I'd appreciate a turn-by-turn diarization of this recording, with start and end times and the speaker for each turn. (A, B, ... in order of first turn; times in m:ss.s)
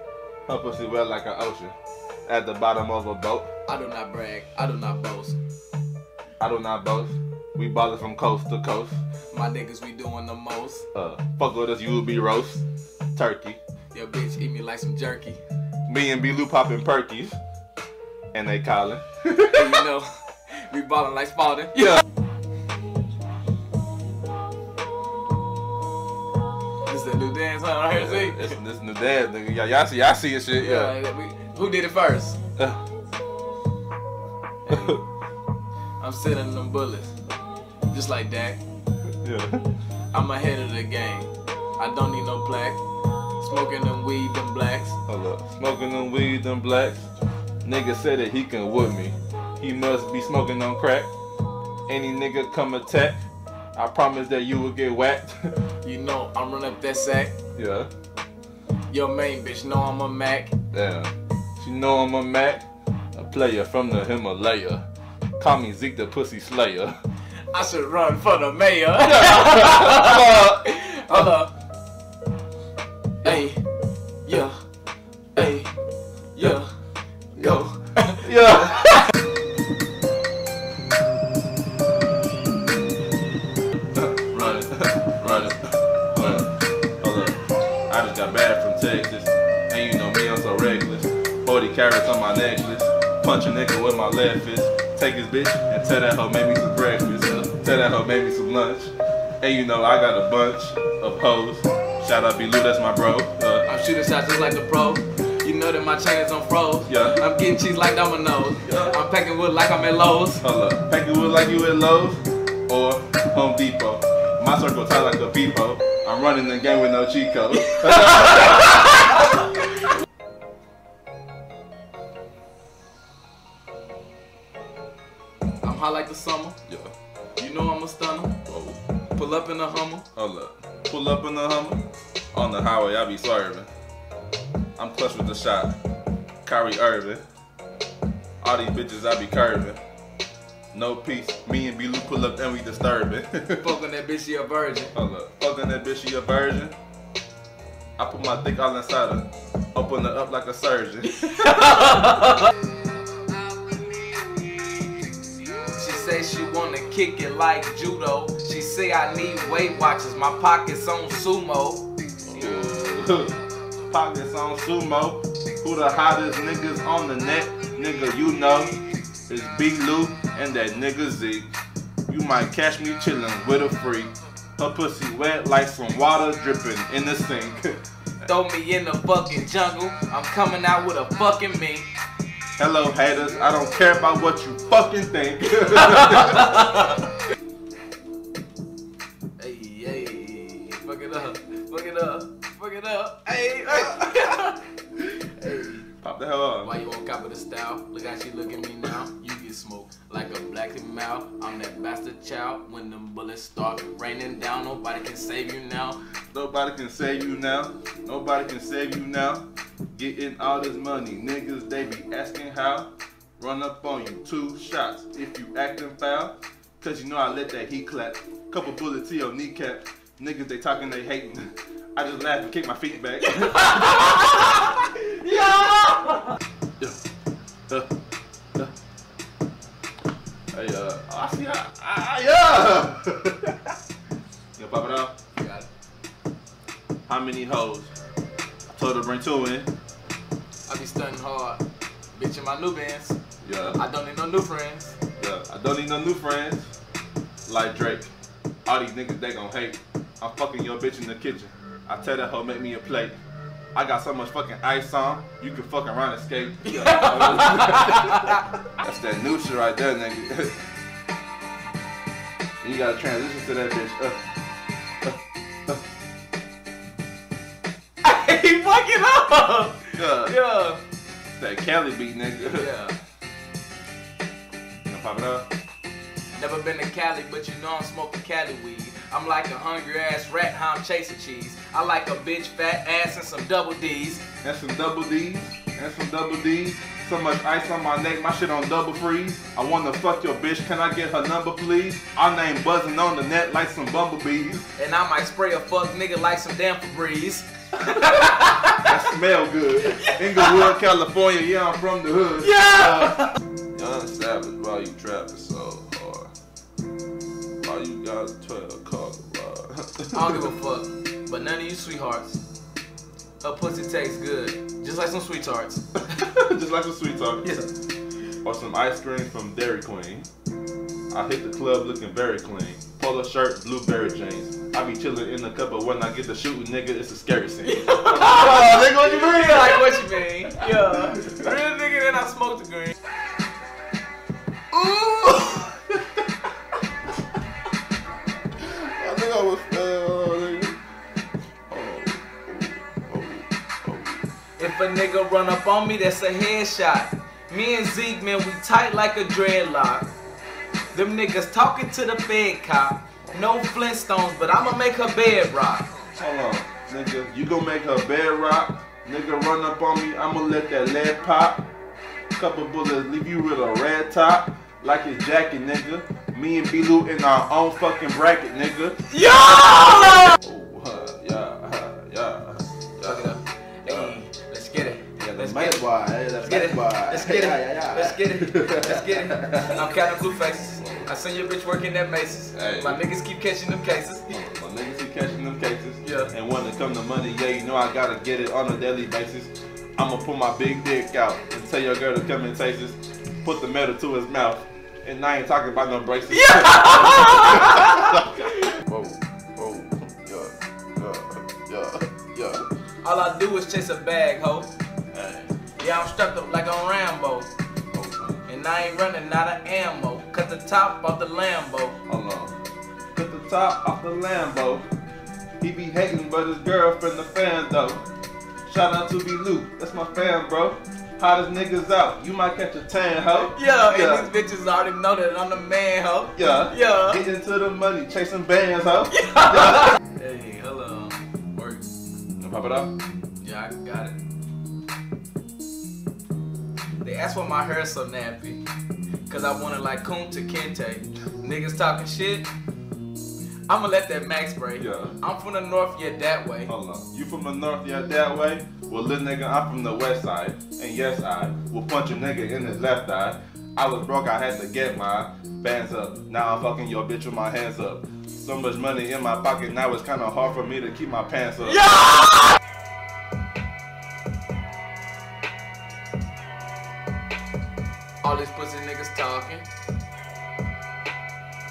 0:00.5-0:03.5 A
0:03.7-0:05.4 B
0:06.4-0:09.0 A
0:09.3-0:10.9 B
0:10.9-0:12.6 A
0:13.2-0:13.6 A
0:13.9-0:15.4 B
0:15.9-0:17.4 A
0:18.3-0:19.8 A
0:19.4-0:22.0 B
0:26.9-0:28.6 B
0:27.9-0:30.9 A
0:30.6-0:32.4 B
0:34.7-0:35.0 B
0:34.7-0:35.0 A
0:36.0-0:37.1 B
0:37.9-0:38.6 B
0:39.1-0:39.6 A
0:40.1-0:42.8 B
0:43.4-0:45.0 B
0:45.1-0:47.1 A
0:47.6-0:51.1 A
0:51.9-0:53.2 A
0:53.8-0:55.6 A
0:55.8-0:57.3 B
0:57.6-0:57.9 A
0:58.9-1:00.6 B
1:00.7-1:04.9 A
1:05.4-1:07.0 A
1:07.5-1:11.5 B
1:09.3-1:10.6 A
1:13.2-1:13.6 B
1:14.2-1:14.6 B
1:15.4-1:15.8 B
1:16.4-1:16.7 B
1:17.4-1:18.2 B
1:18.1-1:19.0 A
1:23.9-1:43.7 A
1:37.2-1:37.5 B
1:43.7-1:50.5 B
1:46.9-1:47.2 A
1:48.6-1:49.0 A
1:50.4-1:59.2 A
2:05.6-2:06.6 B
2:06.7-2:06.9 A
2:07.4-2:08.4 B
2:08.5-2:08.8 A
2:09.2-2:10.1 B
2:10.2-2:13.7 A
2:14.8-2:15.8 A
2:16.4-2:17.2 A
2:18.4-2:19.8 A
2:20.7-2:23.7 A
2:23.6-2:24.9 B
2:24.9-2:26.8 A
2:28.0-2:31.8 A
2:31.4-2:32.3 B
2:35.7-2:41.8 B
2:42.3-2:43.4 A
2:43.9-2:51.5 A
2:52.1-2:57.8 A
2:58.2-3:01.9 B
3:02.6-3:07.0 A
3:09.4-3:14.6 B
3:15.4-3:15.9 B
3:16.0-3:16.7 A
3:16.6-3:26.0 B
3:26.3-3:44.2 A
3:43.2-3:46.4 B
3:50.5-3:53.8 A
3:54.6-3:55.2 A
3:55.4-3:55.7 B
3:57.1-3:57.9 A
3:58.7-3:59.7 A
4:00.7-4:01.6 B
4:02.2-4:03.2 B
4:03.4-4:03.8 A
4:03.8-4:05.0 B
4:05.2-4:06.7 A
4:07.5-4:08.1 A
4:08.7-4:13.2 A
4:13.8-4:20.6 A
4:16.6-4:18.4 B
4:22.6-4:24.2 A
4:25.0-4:25.8 A
4:28.0-4:30.8 B
4:30.0-4:30.4 A
4:31.4-4:32.7 A
4:32.5-4:33.0 B
4:34.8-4:35.5 A
4:36.4-4:44.2 B
4:44.4-4:54.7 A
4:54.8-4:58.9 B
4:58.8-5:06.3 A
5:00.0-5:00.4 B
5:02.4-5:03.3 B
5:07.6-5:10.5 A
5:10.1-5:12.4 B
5:13.4-5:15.8 B
5:16.1-5:17.6 A
5:18.4-5:20.3 A
5:21.1-5:29.8 A
5:27.6-5:33.0 B
5:30.5-5:31.4 A
5:34.7-5:36.2 A
5:38.6-5:40.8 A
5:41.7-5:44.3 A
5:44.6-5:50.1 B
5:50.9-5:55.9 B
5:56.2-6:01.7 A
6:02.4-6:09.1 A
6:09.1-6:10.4 B
6:10.4-6:14.2 A
6:13.0-6:15.8 B
6:15.0-6:19.9 A
6:16.4-6:24.3 B
6:20.8-6:21.1 A
6:22.5-6:23.0 A
6:24.3-6:42.7 A
6:26.0-6:26.3 B
6:37.0-6:38.1 B
6:43.0-6:44.7 B
6:45.1-6:45.5 A
6:45.8-6:47.5 B
6:47.9-6:48.4 A
6:48.5-6:52.0 B
6:52.1-6:52.5 A
6:53.1-6:54.9 A
6:55.6-6:58.1 A
6:58.7-7:04.3 A
7:03.5-7:07.2 B
7:06.4-7:09.9 A
7:09.1-7:11.9 B
7:12.4-7:12.9 A
7:13.4-7:14.2 B
7:17.0-7:18.6 B
7:19.3-7:22.5 B
7:23.7-7:26.7 B
7:24.8-7:25.2 A
7:26.7-7:42.0 A
7:48.2-7:49.7 B